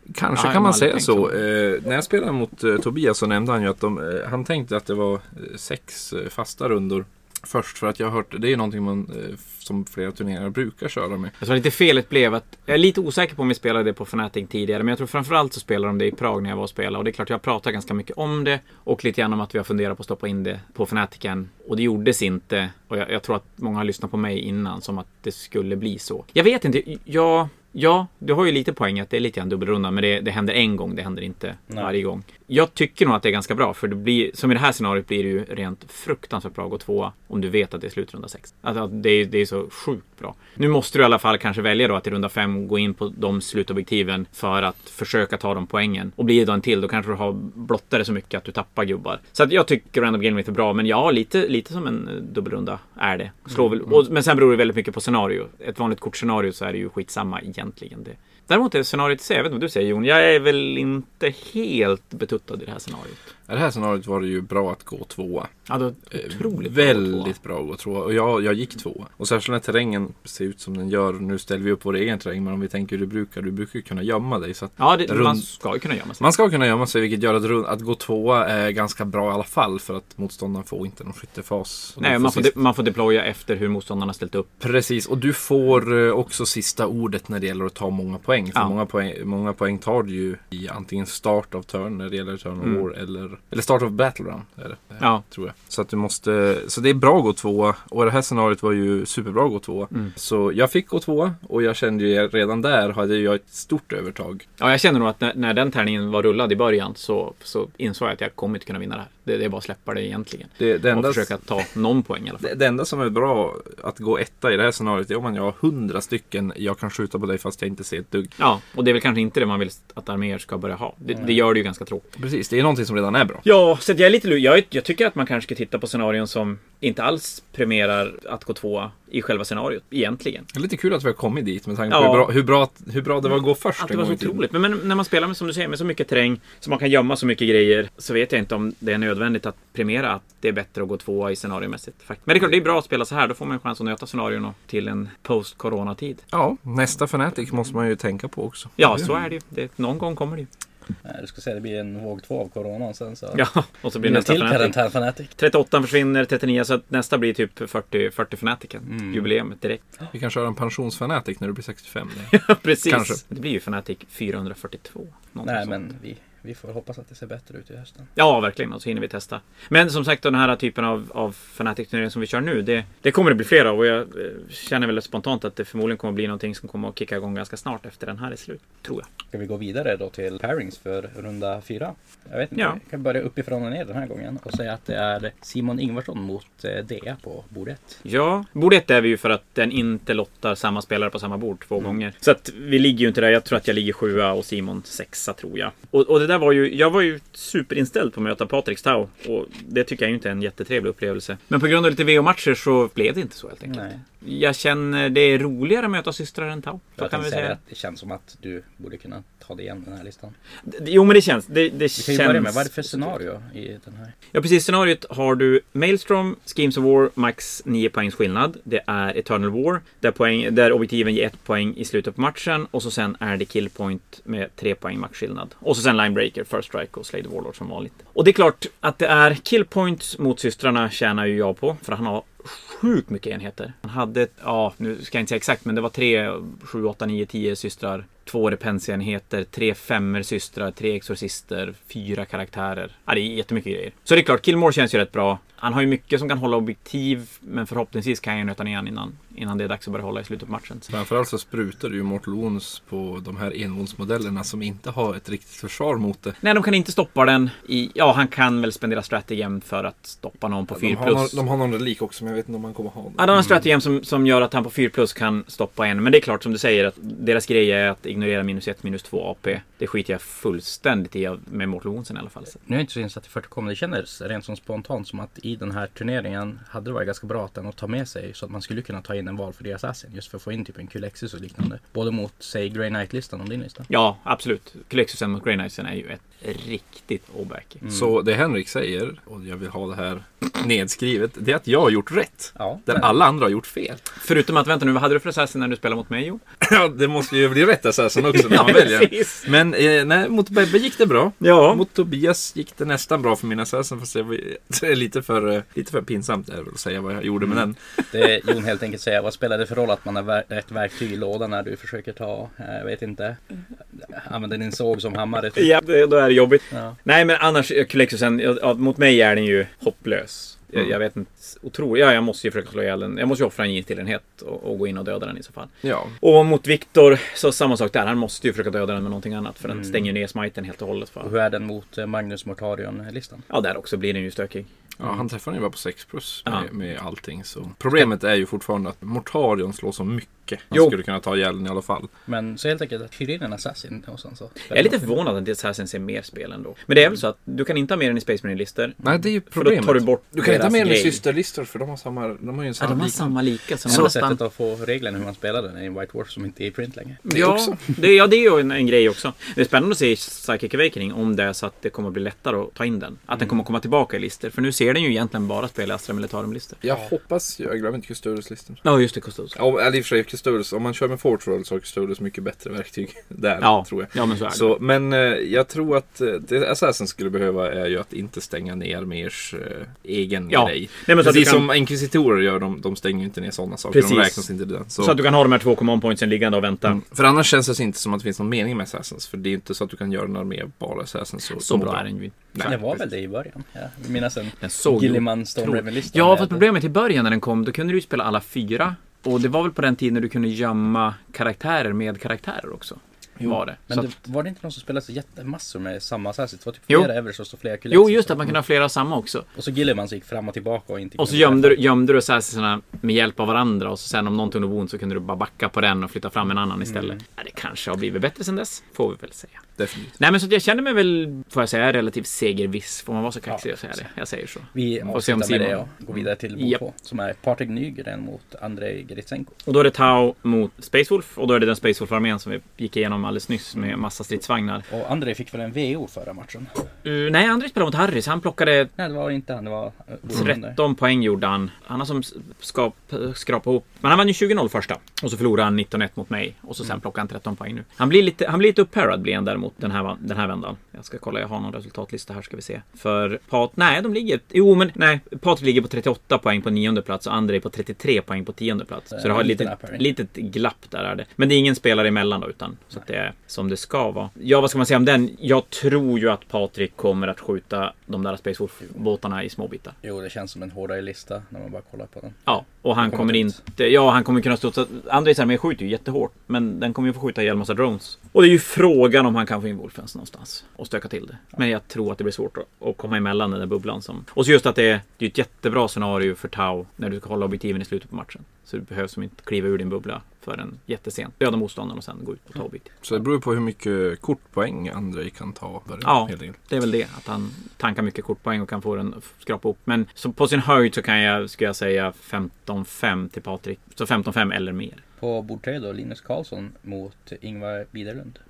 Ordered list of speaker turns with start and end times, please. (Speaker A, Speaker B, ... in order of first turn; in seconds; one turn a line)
Speaker A: 0.1-11.3
Speaker B: 0.3-1.3
Speaker B: 11.4-63.2
Speaker A: 63.5-65.5
Speaker B: 65.7-67.3
Speaker A: 66.1-75.5
Speaker B: 74.8-76.2
Speaker A: 76.2-82.5
Speaker B: 82.0-84.5
Speaker A: 84.6-104.4
Speaker B: 104.6-112.5
Speaker A: 110.6-111.3
Speaker A: 112.4-118.3
Speaker B: 118.4-122.0
Speaker A: 122.2-123.4
Speaker B: 123.4-130.5
Speaker A: 130.5-134.4
Speaker B: 131.9-132.3
Speaker B: 133.8-146.2
Speaker A: 146.3-149.1
Speaker B: 148.8-150.5
Speaker C: 151.0-153.4
Speaker B: 153.3-154.8
Speaker C: 154.0-155.3
Speaker B: 155.4-159.8
Speaker C: 158.9-159.3
Speaker A: 160.1-163.2
Speaker B: 162.3-165.8
Speaker C: 165.4-168.1
Speaker B: 168.2-179.1
Speaker C: 179.3-188.0
Speaker B: 188.0-207.6
Speaker C: 203.7-203.9
Speaker C: 207.0-210.3
Speaker B: 210.7-213.1
Speaker C: 211.9-214.1
Speaker B: 214.3-250.9
Speaker A: 250.9-256.4
Speaker B: 256.4-261.4
Speaker A: 260.7-263.4
Speaker B: 263.2-272.6
Speaker C: 272.6-283.9
Speaker B: 283.9-287.8
Speaker C: 287.8-288.1
Speaker A: 287.9-294.0
Speaker C: 292.6-293.1
Speaker B: 294.2-296.4
Speaker A: 296.6-307.8
Speaker B: 298.3-299.5
Speaker B: 301.4-301.8
Speaker C: 308.1-313.4
Speaker C: 313.9-315.7
Speaker B: 315.6-325.7
Speaker A: 325.8-326.1
Speaker B: 326.2-331.3
Speaker C: 329.7-330.0
Speaker C: 331.2-333.4
Speaker B: 333.5-334.7
Speaker A: 335.0-342.1
Speaker C: 342.3-345.1
Speaker B: 344.7-349.0
Speaker A: 349.0-353.4
Speaker B: 349.5-351.2
Speaker B: 352.8-354.4
Speaker C: 353.9-357.2
Speaker B: 357.2-366.8
Speaker A: 357.3-357.9
Speaker A: 366.8-368.8
Speaker B: 368.8-369.6
Speaker A: 369.5-385.2
Speaker B: 373.6-374.7
Speaker B: 380.5-381.7
Speaker B: 383.9-384.4
Speaker B: 385.0-387.0
Speaker A: 386.9-392.9
Speaker B: 391.6-392.5
Speaker C: 392.6-396.7
Speaker B: 394.6-404.1
Speaker C: 403.9-408.6
Speaker B: 407.9-409.4
Speaker C: 409.5-411.8
Speaker B: 411.2-419.6
Speaker A: 419.8-420.2
Speaker B: 420.2-425.8
Speaker C: 424.7-429.5
Speaker B: 429.6-434.8
Speaker C: 434.9-436.8
Speaker B: 437.0-438.9
Speaker C: 438.9-440.8
Speaker B: 440.3-469.9
Speaker C: 459.1-460.1
Speaker C: 470.0-473.6
Speaker B: 472.5-492.9
Speaker A: 493.0-496.6
Speaker B: 496.0-505.0
Speaker C: 505.2-508.4